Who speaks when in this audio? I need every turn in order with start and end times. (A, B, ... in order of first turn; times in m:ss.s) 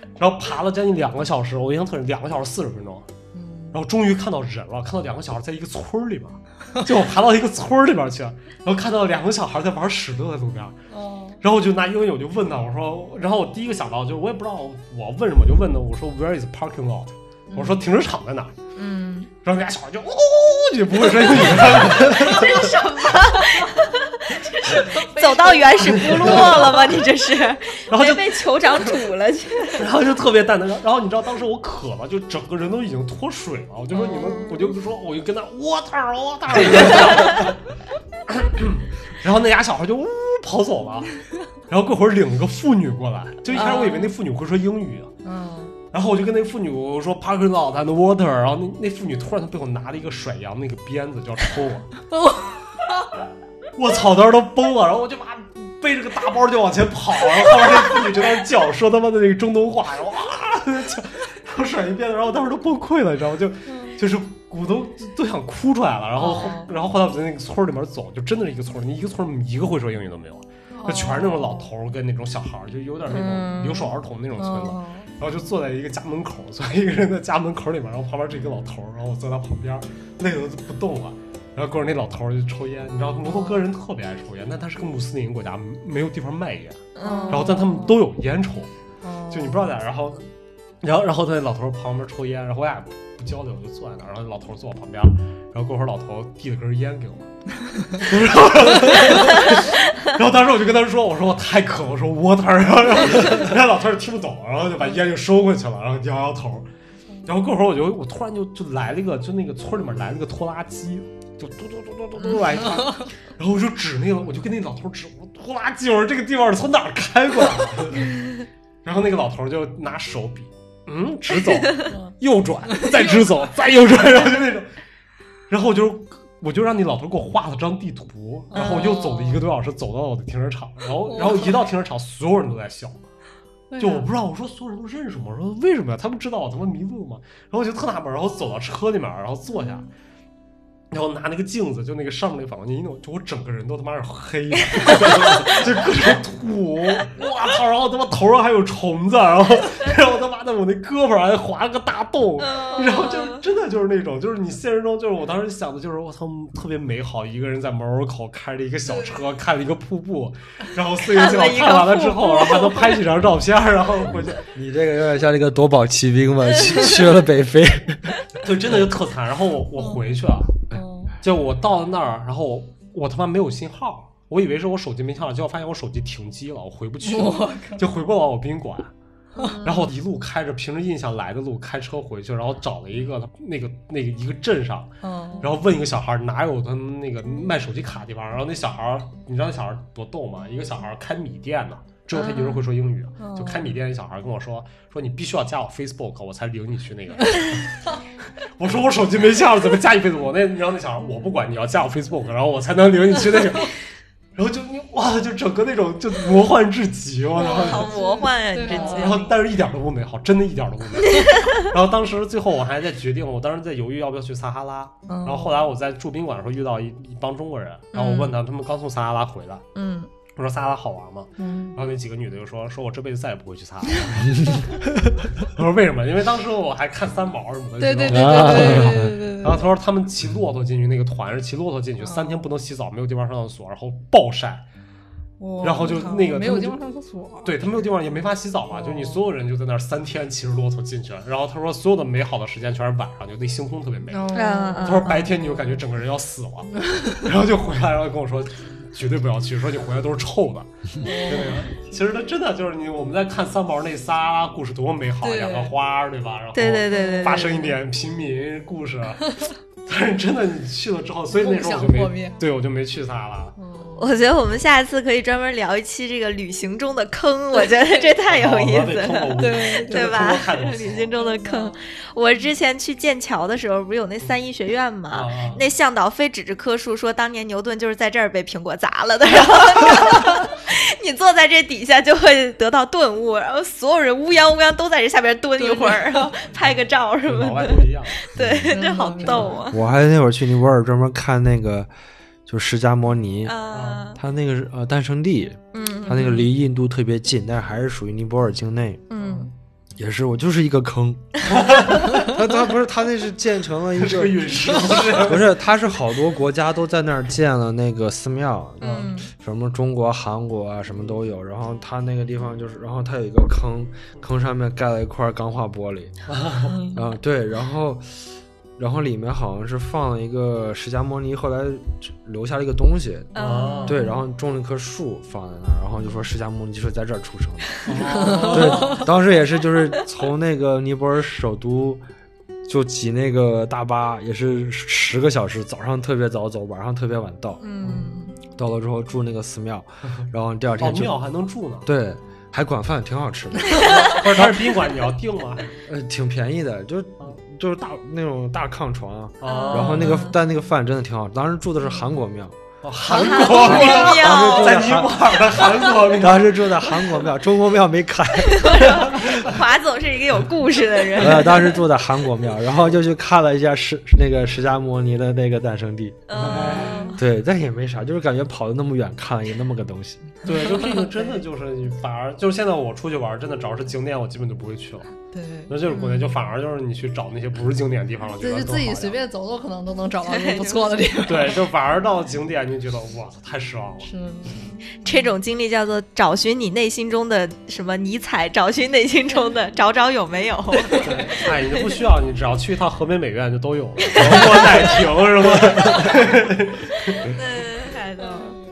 0:00.2-0:03.1 A
0:03.3-0:03.8 B
0:03.7-0:10.8 A
0:10.9-0:11.4 B
0:11.4-0:18.5 A
0:17.5-0:17.8 B
0:18.8-0:19.3 C
0:19.4-0:22.8 A
0:21.7-0:29.9 C
0:22.2-0:23.8 B
0:24.6-0:26.4 B
0:25.8-0:27.0 A
0:27.9-0:29.0 A
0:29.7-0:37.6 A
0:33.9-0:34.7 C
0:36.7-0:37.4 C
0:38.3-0:41.2 A
0:41.7-0:45.1 A
0:43.5-0:44.1 C
0:45.2-0:45.7 B
0:45.9-0:51.9 A
0:52.1-0:52.6 B
0:53.8-1:28.7 A
1:03.7-1:04.0 B
1:06.2-1:06.7 B
1:10.7-1:11.7 B
1:13.1-1:14.0 C
1:14.4-1:15.1 B
1:23.3-1:23.6 B
1:26.9-1:27.5 C
1:27.0-1:28.0 B
1:29.0-1:29.7 B
1:29.3-1:30.2 A
1:30.8-1:37.3 A
1:37.9-1:46.7 A
1:47.2-1:58.2 A
1:52.7-1:53.1 B
1:58.8-2:04.7 A
2:01.8-2:02.1 B
2:02.7-2:03.2 B
2:05.5-2:13.0 A
2:08.5-2:09.3 B
2:08.5-2:09.4 C
2:11.1-2:11.6 B
2:13.7-2:14.1 B
2:13.8-2:19.9 A
2:20.9-2:44.4 A
2:24.7-2:25.6 C
2:32.4-2:33.4 C
2:41.0-2:43.0 C
2:44.5-2:48.2 D
2:46.6-2:47.1 C
2:48.4-2:50.6 A
2:50.7-2:51.2 B
2:51.2-2:58.9 A
2:57.0-2:57.8 B
2:59.4-2:59.6 B
2:59.4-2:59.9 C
2:59.6-3:17.8 A
3:05.0-3:05.5 B
3:12.1-3:12.6 C
3:13.2-3:13.7 B
3:18.6-3:23.8 A
3:24.4-3:28.0 A
3:27.4-3:29.4 C
3:27.4-3:29.3 B
3:28.7-3:39.7 A
3:31.1-3:31.5 C
3:35.1-3:35.6 B
3:37.9-3:38.4 C
3:39.7-3:40.1 C
3:40.3-3:44.8 A
3:41.4-3:41.8 B
3:45.4-3:54.6 A
3:47.8-3:49.7 B
3:48.1-3:49.2 D
3:52.0-3:52.4 B
3:55.4-3:57.5 B
3:55.6-3:56.8 A
3:57.4-4:19.3 A
3:58.7-3:59.2 B
4:04.1-4:05.8 B
4:04.3-4:05.2 C
4:06.8-4:07.2 B
4:11.0-4:11.7 B
4:15.2-4:15.7 B
4:16.5-4:17.7 C
4:16.9-4:17.8 B
4:19.8-4:23.6 A
4:21.3-4:22.4 B
4:23.6-4:24.2 B
4:24.0-4:49.8 C
4:28.1-4:31.2 A
4:29.4-4:30.1 B
4:31.2-4:31.8 B
4:35.1-4:35.6 A
4:45.6-4:46.5 B
4:47.2-4:48.2 A
4:48.3-4:48.7 D
4:48.6-4:49.6 B
4:49.2-4:49.6 A
4:49.7-4:51.9 D
4:52.5-4:53.6 D
4:53.4-4:54.2 C
4:53.7-4:54.1 A
4:54.1-4:59.0 D
4:55.7-4:56.5 C
4:59.1-4:59.5 C
4:59.2-4:59.5 A
5:00.0-5:16.2 D
5:01.5-5:02.1 A
5:01.5-5:02.3 C
5:04.0-5:05.5 A
5:08.8-5:09.3 C
5:08.8-5:09.1 A
5:16.3-5:16.8 A
5:16.6-5:17.1 C
5:16.9-5:32.0 D
5:23.3-5:24.2 C
5:23.4-5:24.0 A
5:27.8-5:29.0 A
5:28.1-5:29.0 B
5:32.6-5:37.7 D
5:37.6-5:38.4 C
5:38.6-5:41.2 D
5:40.8-5:41.9 A
5:41.8-5:44.8 D
5:43.7-5:44.2 C
5:43.9-5:45.7 A
5:45.8-5:52.6 D
5:49.4-5:50.3 A
5:49.4-5:50.4 C
5:52.8-5:56.8 A
5:53.0-5:54.9 C
5:53.4-5:59.3 D
5:58.4-6:01.8 C
6:01.2-6:06.6 D
6:06.3-6:07.2 C
6:06.3-6:07.0 A
6:06.7-6:07.1 B
6:07.2-6:10.5 D
6:10.4-6:15.1 A
6:15.3-6:15.8 B
6:15.7-6:19.2 A
6:15.9-6:16.3 C
6:18.4-6:21.6 B
6:20.3-6:21.0 C
6:21.3-6:24.1 A
6:24.0-6:25.3 B
6:25.0-6:31.4 C
6:30.8-6:31.2 B
6:31.0-6:37.3 A
6:34.1-6:35.0 C
6:35.8-6:36.1 C
6:37.0-6:38.6 C